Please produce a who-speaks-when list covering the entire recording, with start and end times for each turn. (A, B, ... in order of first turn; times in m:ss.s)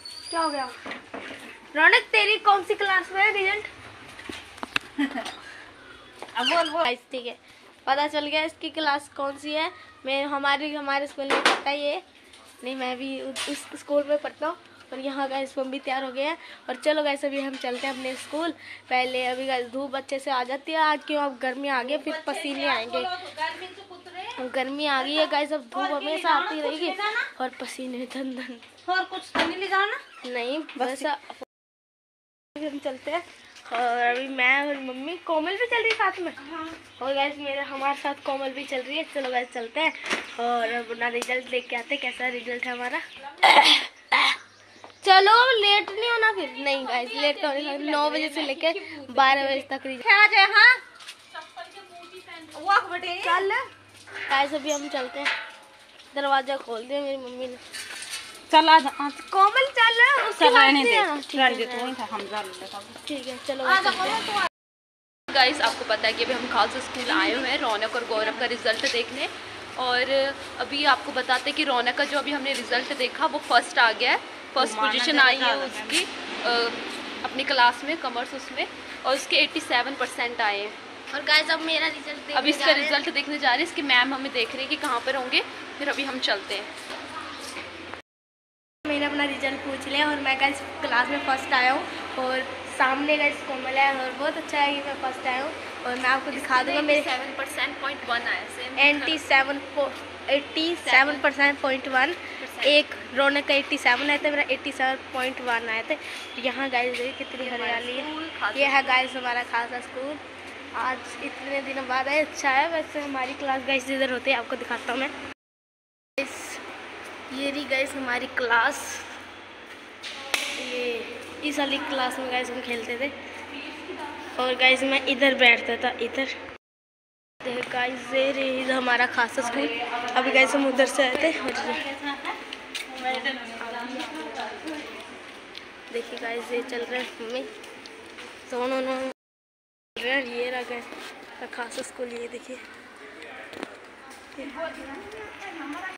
0:00.3-0:00.7 A
0:01.7-0:03.7 A
0:06.3-0:06.8 B
0:06.8-0:12.0 A
0:12.6-0:23.1 A
0:21.8-0:24.4 B
0:24.4-0:28.6 A
0:25.0-0:27.3 B
0:28.8-0:30.0 B
0:30.2-0:31.2 A
0:30.8-0:31.0 B
0:32.5-0:36.4 A
0:36.4-0:36.8 B
0:37.0-0:44.4 A
0:45.0-0:50.0 A
0:46.6-0:53.7 B
0:54.3-0:55.3 A
0:56.1-0:57.6 A
0:58.5-0:59.6 B
0:59.5-1:02.0 A
1:00.3-1:03.0 B
1:03.0-1:04.3 A
1:03.7-1:04.4 B
1:05.3-1:20.8 C
1:14.6-1:16.0 B
1:21.1-1:23.0 A
1:22.3-1:26.7 C
1:28.8-1:37.1 A
1:36.3-1:39.2 C
1:38.8-1:50.2 A
1:40.8-1:41.2 C
1:42.4-1:42.9 C
1:47.4-1:49.0 C
1:50.7-1:55.1 A
1:56.2-1:56.6 A
1:57.3-1:59.0 A
2:00.6-2:03.1 A
2:04.3-2:06.3 A
2:07.4-2:11.9 A
2:09.6-2:10.4 B
2:11.0-2:12.4 B
2:12.9-2:14.9 B
2:15.9-2:17.5 A
2:18.5-2:19.2 A
2:20.0-2:22.6 A
2:24.5-2:25.4 B